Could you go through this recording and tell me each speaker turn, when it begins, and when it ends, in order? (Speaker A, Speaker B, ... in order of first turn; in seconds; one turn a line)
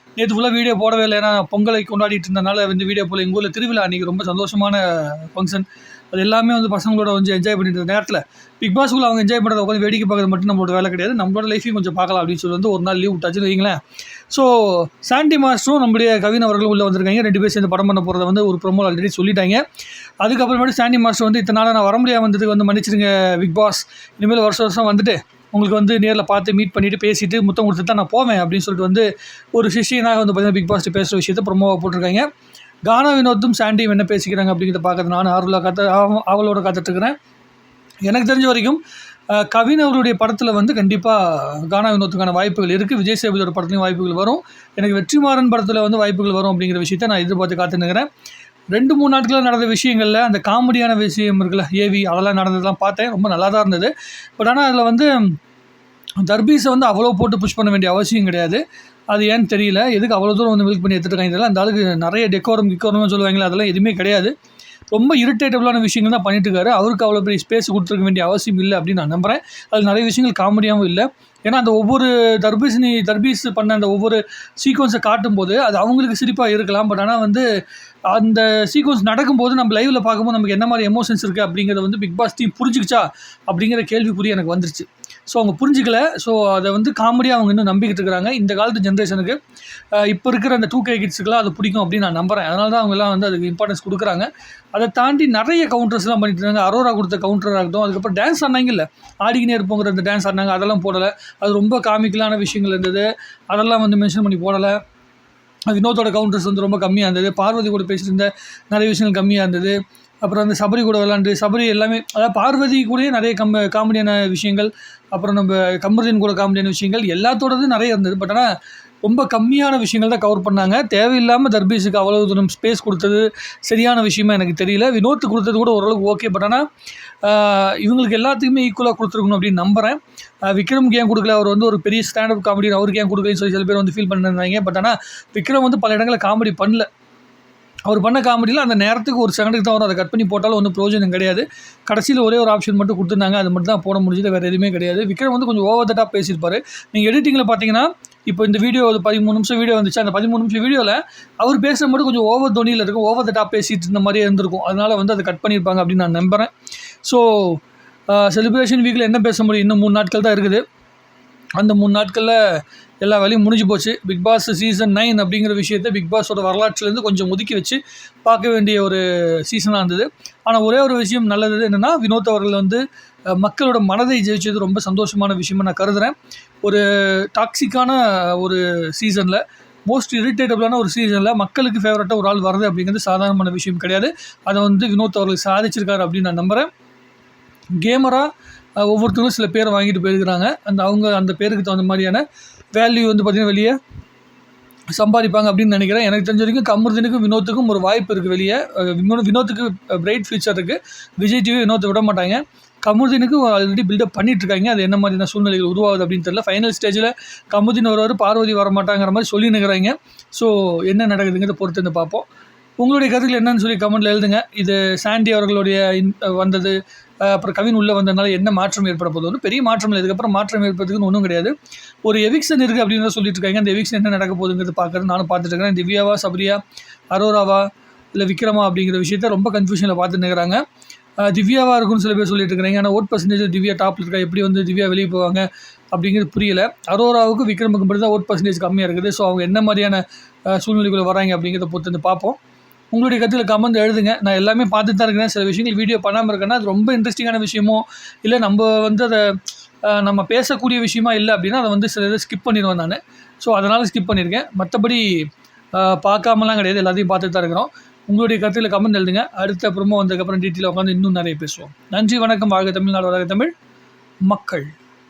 Speaker A: 0.2-19.6
Speaker A: 20.2-32.3
Speaker A: 32.9-37.1
Speaker A: 38.1-48.1
Speaker A: 48.7-55.4
Speaker A: 56.2-64.3
Speaker A: 64.9-77.5
Speaker A: 78.1-89.4
Speaker A: 89.9-104.8
Speaker A: 105.7-118.5
Speaker A: 119.0-126.7
Speaker A: 127.2-136.9
Speaker A: 137.9-156.5
Speaker A: 157.0-160.6
Speaker A: 161.6-162.4
Speaker A: 163.0-172.8
Speaker A: 173.3-186.7
Speaker A: 187.8-188.3
Speaker A: 188.8-193.8
Speaker A: 194.9-212.3
Speaker A: 212.8-221.5
Speaker A: 222.0-226.6
Speaker A: 227.1-230.6
Speaker A: 231.2-242.4
Speaker A: 242.9-263.5
Speaker A: 264.3-264.7